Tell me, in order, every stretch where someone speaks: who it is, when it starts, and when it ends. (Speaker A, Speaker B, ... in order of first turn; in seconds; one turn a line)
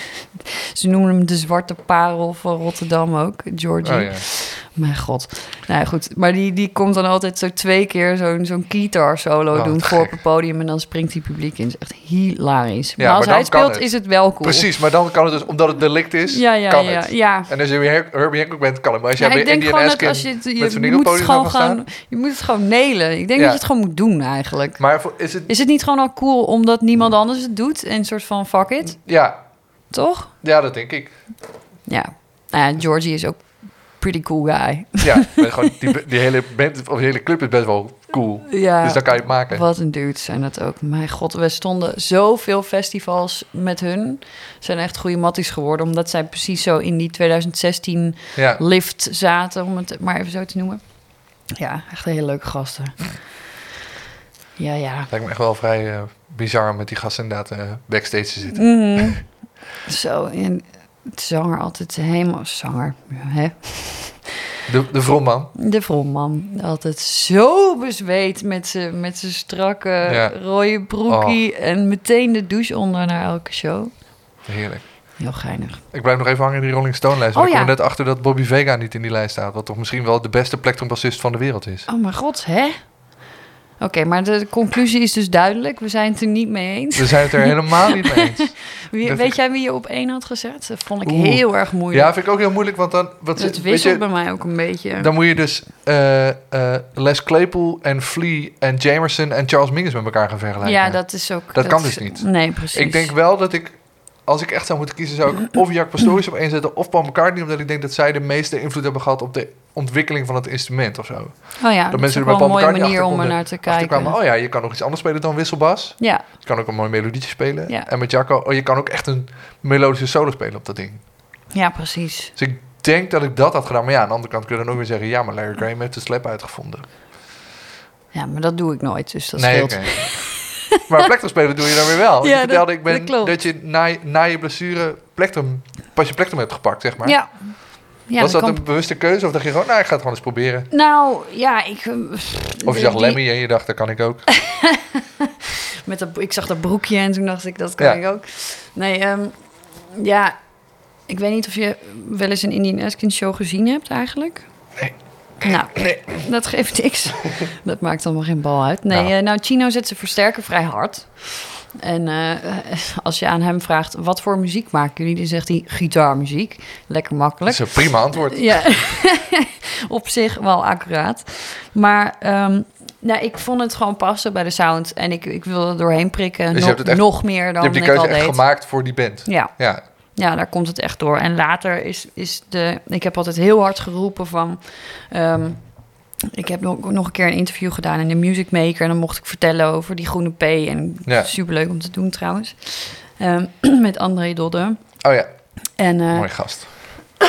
Speaker A: 0.7-14.7
Speaker B: 3.8-4.3
Speaker B: 9.5-10.2
Speaker B: 13.0-21.9
Speaker A: 16.3-17.5
Speaker A: 19.2-29.3
Speaker B: 23.4-23.6
Speaker B: 24.8-25.5
Speaker B: 29.0-31.4
Speaker A: 29.9-30.4
Speaker A: 31.9-35.5
Speaker B: 35.0-39.6
Speaker A: 38.5-53.5
Speaker B: 48.4-48.6
Speaker A: 54.6-55.1
Speaker B: 55.1-59.2
Speaker A: 58.5-64.3
Speaker B: 64.7-65.5
Speaker A: 65.6-74.3
Speaker B: 70.0-71.4
Speaker B: 74.5-75.4
Speaker A: 75.2-75.8
Speaker B: 75.9-81.9
Speaker A: 77.3-77.7
Speaker A: 81.9-92.1
Speaker B: 87.0-89.3
Speaker B: 91.0-94.5
Speaker A: 93.4-95.1
Speaker B: 95.0-121.1
Speaker A: 100.6-103.1
Speaker A: 111.6-114.2
Speaker A: 116.0-116.3
Speaker A: 121.5-122.3
Speaker B: 122.4-126.9
Speaker A: 128.1-130.4
Speaker B: 129.4-140.7
Speaker A: 132.2-133.4
Speaker A: 137.0-138.6
Speaker A: 140.7-143.3
Speaker B: 142.6-144.4
Speaker A: 145.8-195.1
Speaker B: 154.8-156.3
Speaker B: 167.4-168.9
Speaker B: 176.5-179.8
Speaker B: 191.1-191.3
Speaker B: 195.0-196.7
Speaker A: 195.7-196.9